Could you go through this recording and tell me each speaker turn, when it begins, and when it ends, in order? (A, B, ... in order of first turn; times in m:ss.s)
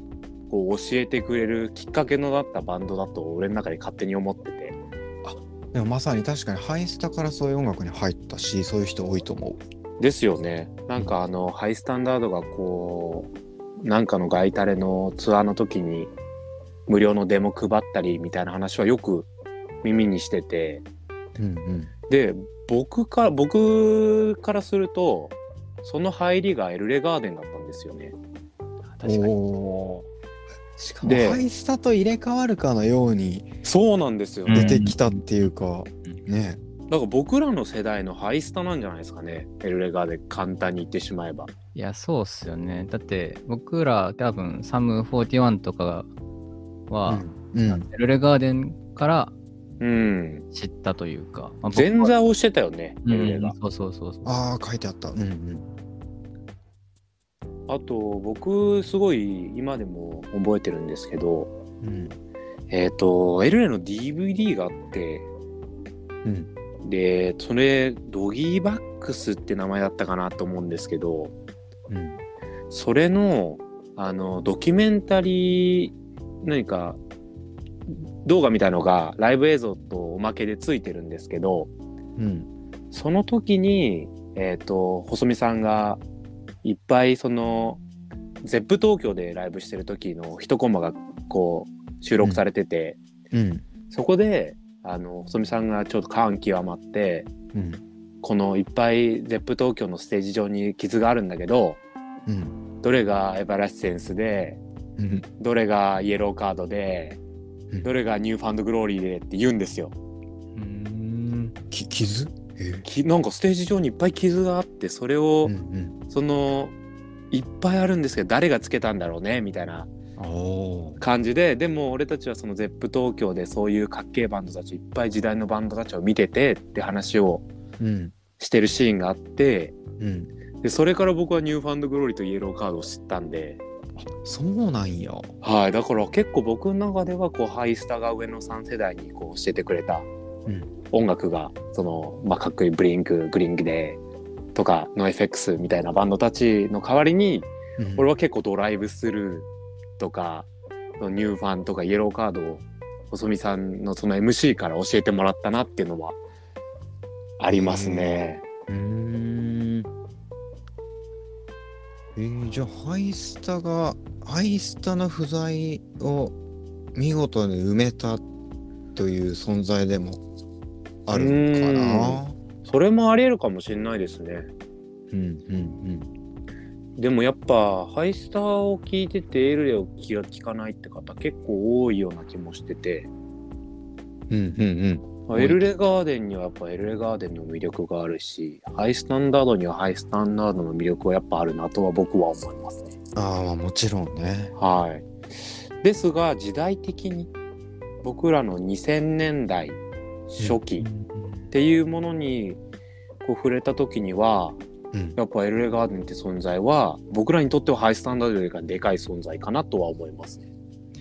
0:00.5-0:04.7 A
0:05.2-0:09.6 B
0:10.0-0:16.1 A
0:16.9-0:19.3 A
0:19.8-0:20.8 A
0:21.4-0:21.9 B
0:22.1-0:28.1 A
0:28.9-0:29.3 C
0:29.0-0:30.0 B
0:30.8-0:33.5 B
0:31.0-0:31.4 A
0:33.6-0:34.7 A
0:34.5-0:35.2 C
0:34.5-0:36.6 B
0:36.9-0:41.5 A
0:41.7-0:46.1 C
0:46.9-0:49.3 C
0:47.1-0:47.8 B
0:49.8-0:50.4 A
0:50.5-0:52.1 C
0:51.7-0:53.5 A
0:53.0-0:54.3 C
0:54.2-0:55.7 B
0:57.7-1:01.5 A
1:01.8-1:02.2 B
1:02.7-1:05.3 A
1:06.2-1:06.5 B
1:06.8-1:11.3 A
1:11.9-1:12.2 B
1:12.7-1:17.0 A
1:17.9-1:21.7 A
1:22.2-1:22.5 B
1:22.9-1:26.0 A
1:26.6-1:27.8 A
1:28.4-1:33.0 A
1:33.3-1:33.6 B
1:33.9-1:37.3 A
1:37.5-1:37.8 B
1:38.2-1:41.8 A
1:42.2-1:42.6 B
1:42.8-1:44.6 A
1:45.0-1:45.3 B
1:45.4-1:47.2 A
1:47.8-1:49.9 A
1:50.5-1:51.5 C
1:51.7-1:52.9 B
1:52.9-1:55.5 A
1:55.4-1:56.0 B
1:56.1-1:56.7 A
1:57.3-1:59.9 A
2:00.2-2:01.0 B
2:01.0-2:07.4 A
2:07.8-2:08.2 B
2:08.4-2:09.8 A
2:10.0-2:10.3 B
2:10.6-2:13.6 A
2:14.0-2:15.3 B
2:15.4-2:20.1 A
2:20.4-2:20.7 B
2:20.9-2:24.0 A
2:24.5-2:29.5 A
2:27.8-2:28.1 B
2:30.0-2:30.5 A
2:31.0-2:36.2 A
2:37.4-2:38.4 A
2:37.5-2:39.9 B
2:42.2-2:46.4 B
2:46.9-2:48.2 B
2:48.9-2:50.2 B
2:51.1-2:52.4 B
2:51.1-2:54.5 A
2:55.1-2:56.1 B
2:57.0-3:03.1 A
3:04.3-3:05.6 B
3:05.3-3:12.9 A
3:13.1-3:14.5 B
3:14.6-3:15.1 A
3:15.8-3:17.3 A
3:18.0-3:19.8 A
3:20.3-3:20.9 A
3:20.4-3:21.5 B
3:21.5-3:22.6 A
3:23.2-3:24.6 A
3:25.2-3:30.4 A